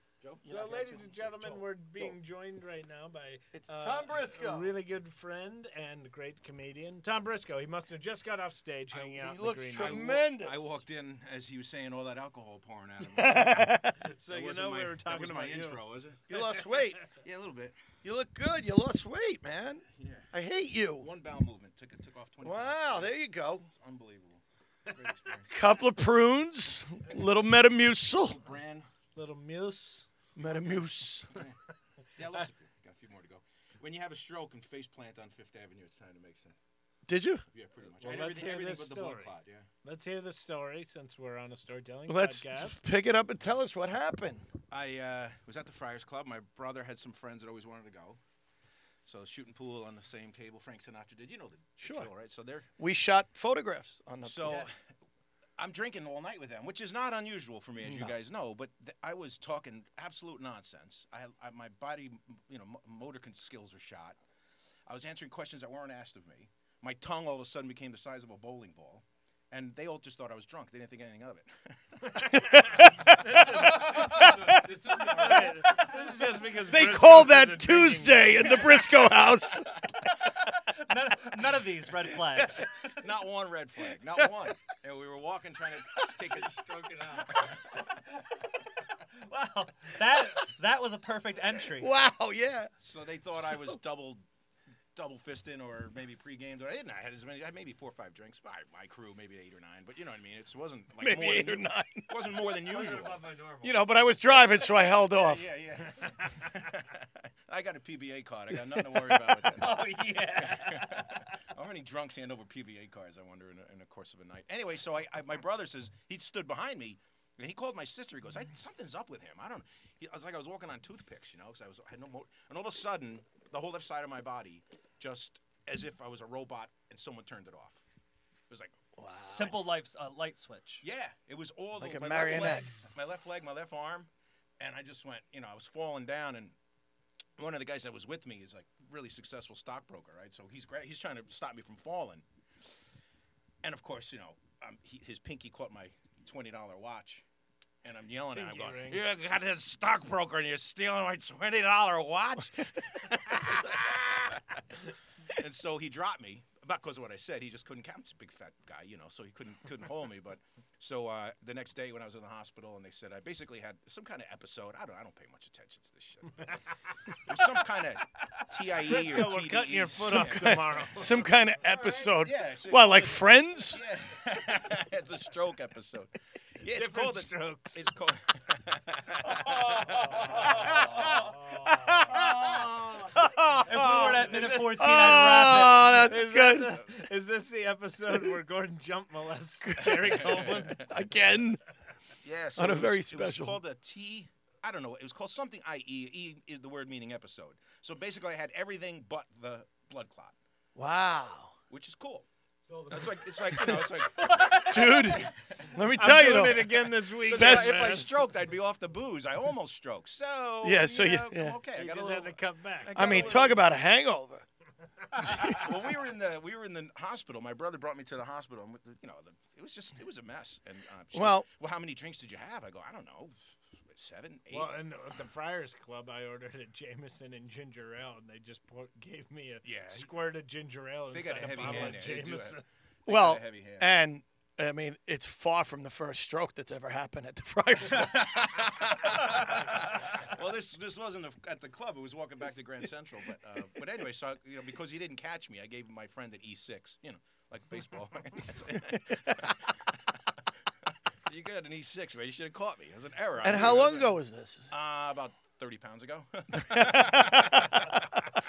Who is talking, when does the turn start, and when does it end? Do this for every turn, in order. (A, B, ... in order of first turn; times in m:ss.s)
0:00.2-0:00.5 A
0:00.4-0:02.2 B
0:00.4-0:10.0 C
0:03.5-0:04.8 B
0:09.0-0:10.8 B
0:09.7-0:16.4 A
0:13.2-0:14.0 B
0:13.8-0:15.8 C
0:16.3-0:17.0 B
0:16.3-0:16.8 C
0:17.1-0:17.8 A
0:18.0-0:21.1 B
0:20.0-0:20.3 A
0:21.0-0:23.2 A
0:22.4-0:23.7 B
0:23.7-0:25.7 A
0:25.5-0:28.4 B
0:28.2-0:28.9 A
0:29.2-0:30.1 C
0:30.4-0:31.4 B
0:31.3-0:31.6 A
0:32.2-0:36.6 A
0:37.1-0:37.4 B
0:37.5-0:39.7 A
0:38.0-0:42.8 C
0:42.1-0:44.5 B
0:44.7-0:48.2 A
0:49.0-0:52.7 A
0:51.8-0:52.1 B
0:52.8-0:54.7 B
0:54.2-0:54.8 A
0:55.6-1:04.2 A
0:57.8-0:58.2 B
1:04.9-1:12.4 A
1:12.2-1:15.6 B
1:13.1-1:14.2 C
1:14.1-1:15.8 D
1:15.0-1:18.6 C
1:16.6-1:19.7 B
1:20.8-1:22.7 E
1:22.3-1:22.7 B
1:22.9-1:27.6 A
1:26.6-1:27.3 D
1:29.2-1:31.9 E
1:31.7-1:32.7 B
1:32.8-1:34.2 A
1:33.4-1:33.8 B
1:35.0-1:43.3 A
1:41.0-1:42.5 B
1:42.7-1:43.7 E
1:43.6-1:45.5 B
1:44.9-2:07.8 A
1:48.7-1:49.4 B
1:49.6-1:51.2 E
2:08.5-2:08.8 A
2:09.0-2:09.6 B
2:09.1-2:10.8 E
2:10.8-2:16.6 A
2:11.8-2:12.7 B
2:17.4-2:22.2 A
2:23.6-2:27.2 A
2:27.8-2:34.8 A
2:28.3-2:29.0 C
2:35.3-2:46.6 A
2:47.1-2:51.3 A
2:48.8-2:51.3 C
2:50.0-2:53.8 B
2:52.1-3:01.1 A
2:56.7-2:57.8 C
3:00.2-3:01.3 D
3:01.7-3:06.8 B
3:02.1-3:03.0 E
3:03.6-3:05.9 E
3:04.3-3:10.8 C
3:09.6-3:11.6 B
3:09.9-3:10.9 A
3:12.2-3:20.4 A
3:12.6-3:13.6 B
3:20.8-3:21.6 B
3:21.7-3:22.3 A
3:22.7-3:23.1 D
3:22.9-3:25.3 A
3:24.2-3:25.0 E
3:24.6-3:28.1 B
3:25.9-3:28.1 C
3:27.2-3:33.7 A
3:30.6-3:31.6 B
3:31.7-3:33.5 C
3:32.9-3:34.4 B
3:35.2-3:44.7 A
3:35.2-3:35.6 B
3:41.1-3:41.5 B
3:44.5-3:52.6 C
3:49.6-3:50.1 A
3:51.1-3:53.9 A
3:51.6-3:51.9 B
3:53.1-3:58.6 B
3:57.8-4:09.8 A
4:11.3-4:14.1 A
4:13.4-4:14.7 B
4:14.7-4:18.3 A
4:16.6-4:18.0 B